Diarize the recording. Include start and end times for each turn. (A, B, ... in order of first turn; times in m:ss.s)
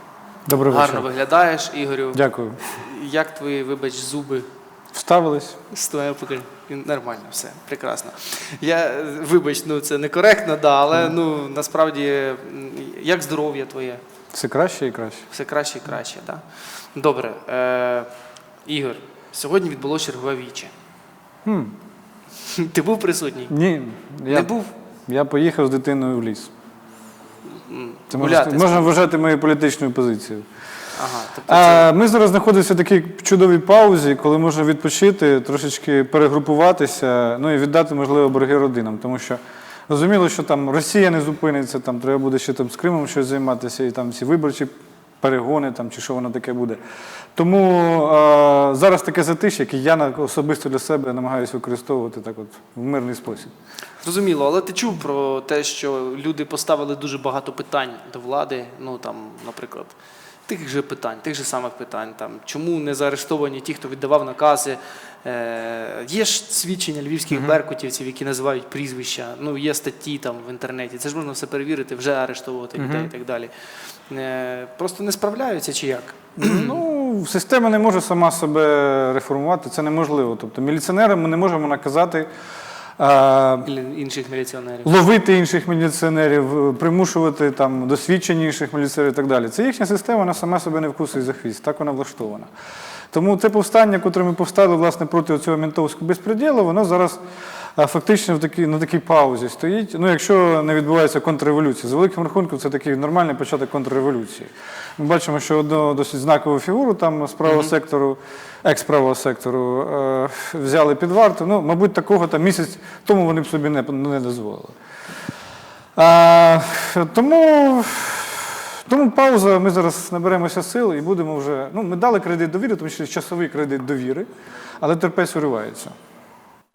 0:00.5-0:01.1 A
0:00.7-0:04.5 B
0:02.1-0:02.6 A
0:04.9-0:05.6 A
0:05.7-0:14.0 B
0:14.3-0:15.2 A
0:15.3-0:16.4 B
0:17.0-0:18.1 B
0:18.7-0:20.7 B
0:21.4-0:21.7 A
0:22.4-0:23.5 B
0:23.5-0:24.5 A
0:24.3-0:24.7 B
0:25.1-0:26.5 A
0:27.5-0:29.0 B
0:28.1-0:30.4 A
0:31.0-0:31.9 B
0:31.5-0:44.7 A
0:45.2-0:46.8 A
0:47.4-0:53.5 A
0:54.0-1:00.0 B
1:00.5-1:13.5 B
1:12.8-1:13.1 A
1:14.1-1:16.8 B
1:16.4-1:22.3 A
1:23.0-1:23.7 A
1:23.6-1:24.9 B
1:24.8-1:32.5 A
1:33.1-1:37.2 A
1:37.8-1:54.8 A
1:47.4-1:47.7 B
1:56.0-2:04.3 A
2:04.8-2:05.9 A